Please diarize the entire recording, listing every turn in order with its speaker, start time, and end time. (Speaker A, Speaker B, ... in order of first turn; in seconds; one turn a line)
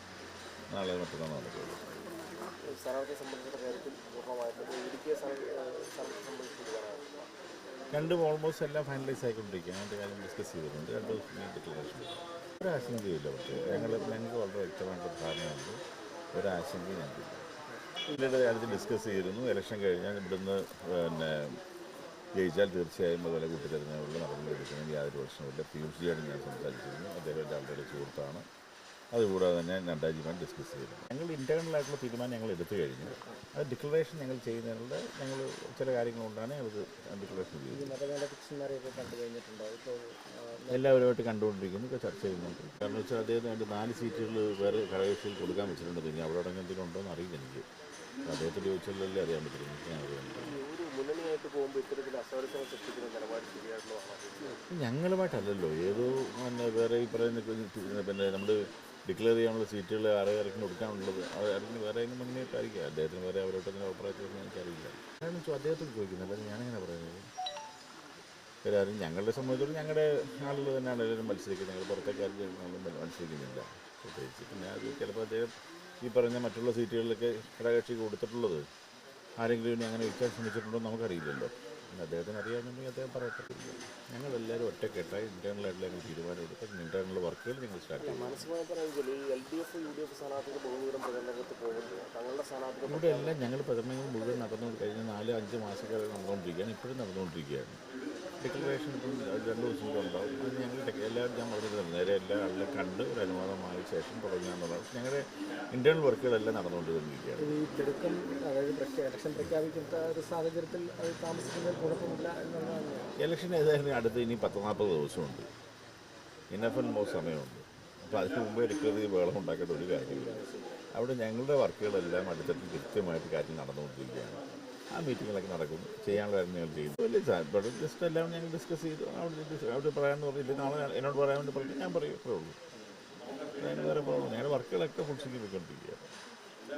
Speaker A: 0.7-1.9
Speaker B: 2.7-7.0
Speaker A: 7.9-15.8
Speaker B: 13.6-14.2
Speaker A: 16.3-17.4
Speaker B: 18.1-18.9
Speaker A: 18.2-21.3
Speaker A: 22.4-28.4
Speaker A: 29.1-38.0
Speaker B: 37.7-41.0
Speaker A: 40.7-47.6
Speaker A: 48.2-50.5
Speaker B: 50.4-54.6
Speaker A: 54.7-67.2
Speaker A: 68.6-75.5
Speaker A: 76.0-78.6
Speaker A: 79.4-88.5
Speaker B: 88.0-93.4
Speaker A: 92.8-97.8
Speaker A: 98.4-107.5
Speaker B: 107.4-113.1
Speaker A: 113.2-115.5
Speaker A: 116.5-120.4
Speaker B: 120.0-120.6
Speaker A: 120.9-132.6
Speaker A: 133.6-136.1